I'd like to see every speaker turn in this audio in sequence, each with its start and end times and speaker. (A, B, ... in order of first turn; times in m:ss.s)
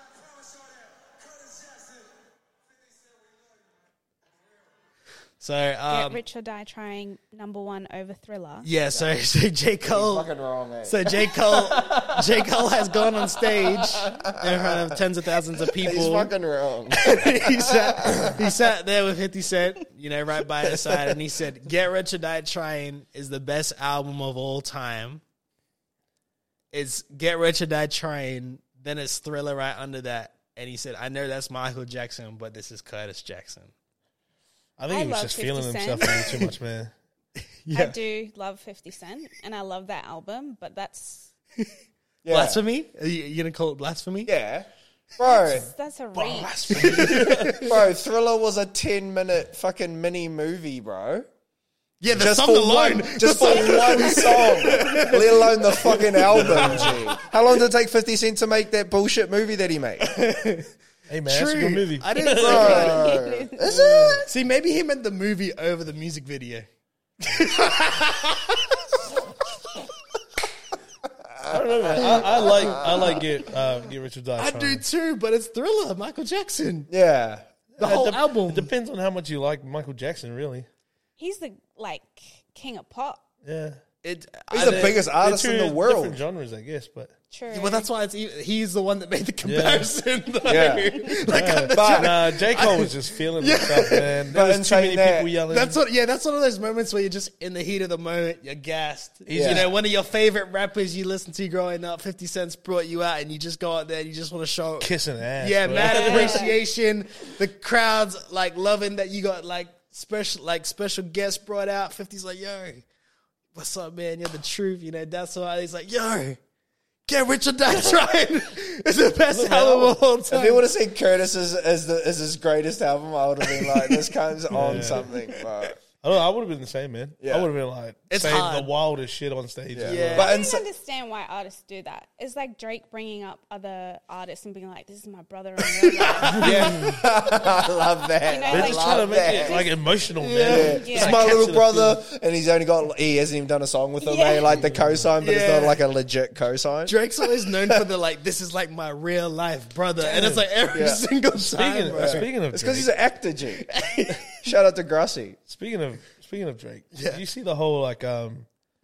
0:05.4-0:06.2 A
0:05.9-0:08.7 B
0:08.6-0:10.3 A
0:08.9-0:09.2 C
0:09.8-0:12.4 C
0:10.8-0:16.3 A
0:13.4-0:15.0 C
0:15.6-0:18.4 C
0:16.9-0:25.2 A
0:20.7-0:21.1 C
0:26.7-0:33.7 A
0:34.8-0:36.9 D
0:34.9-0:36.4 B
0:37.6-0:38.0 A
0:37.7-0:41.3 B
0:42.2-0:42.6 C
0:42.3-0:44.3 A
0:44.3-0:45.7 C
0:45.2-0:47.2 B
0:46.2-0:47.8 D
0:46.7-0:47.8 A
0:47.6-0:51.3 C
0:52.0-0:57.2 A
0:52.1-1:00.2 C
0:56.3-0:57.0 D
1:00.0-1:00.7 A
1:01.1-1:02.9 D
1:01.3-1:03.1 A
1:02.2-1:04.2 B
1:02.4-1:04.3 C
1:04.2-1:06.7 A
1:07.2-1:08.8 A
1:11.4-1:13.3 C
1:11.4-1:14.8 D
1:14.4-1:16.9 A
1:16.9-1:17.5 C
1:17.8-1:20.7 D
1:17.8-1:18.7 A
1:21.2-1:23.2 B
1:23.4-1:23.8 D
1:24.0-1:25.0 A
1:24.5-1:26.2 C
1:24.6-1:27.1 D
1:27.3-1:27.9 B
1:27.5-1:34.2 A
1:29.4-1:29.9 D
1:30.4-1:31.2 C
1:30.5-1:31.2 B
1:31.3-1:35.8 D
1:31.7-1:32.3 C
1:34.3-1:35.4 C
1:35.5-1:52.8 A
1:39.3-1:39.7 D
1:39.3-1:39.7 C
1:44.8-1:46.5 D
1:45.8-1:46.6 B
1:53.6-1:56.4 A
1:57.1-2:00.6 A
1:59.3-2:00.0 D
2:00.3-2:05.8 C
2:03.5-2:04.0 A
2:04.5-2:05.1 D
2:04.6-2:04.9 A
2:06.0-2:10.3 D
2:07.2-2:07.5 C
2:08.1-2:08.7 A
2:09.7-2:10.7 C
2:09.8-2:10.3 A
2:10.2-2:17.0 B
2:16.0-2:19.6 C
2:16.0-2:17.0 D
2:18.2-2:19.8 B
2:18.5-2:22.0 D
2:20.2-2:21.1 A
2:20.4-2:27.9 C
2:20.5-2:21.4 B
2:24.0-2:24.6 B
2:24.6-2:25.1 D
2:25.2-2:25.8 A
2:26.9-2:32.3 A
2:30.0-2:30.5 D
2:30.7-2:31.0 C
2:31.4-2:32.9 D
2:31.9-2:33.7 C
2:33.5-2:34.5 A
2:34.4-2:35.4 C
2:35.5-2:38.5 D
2:36.9-2:37.2 A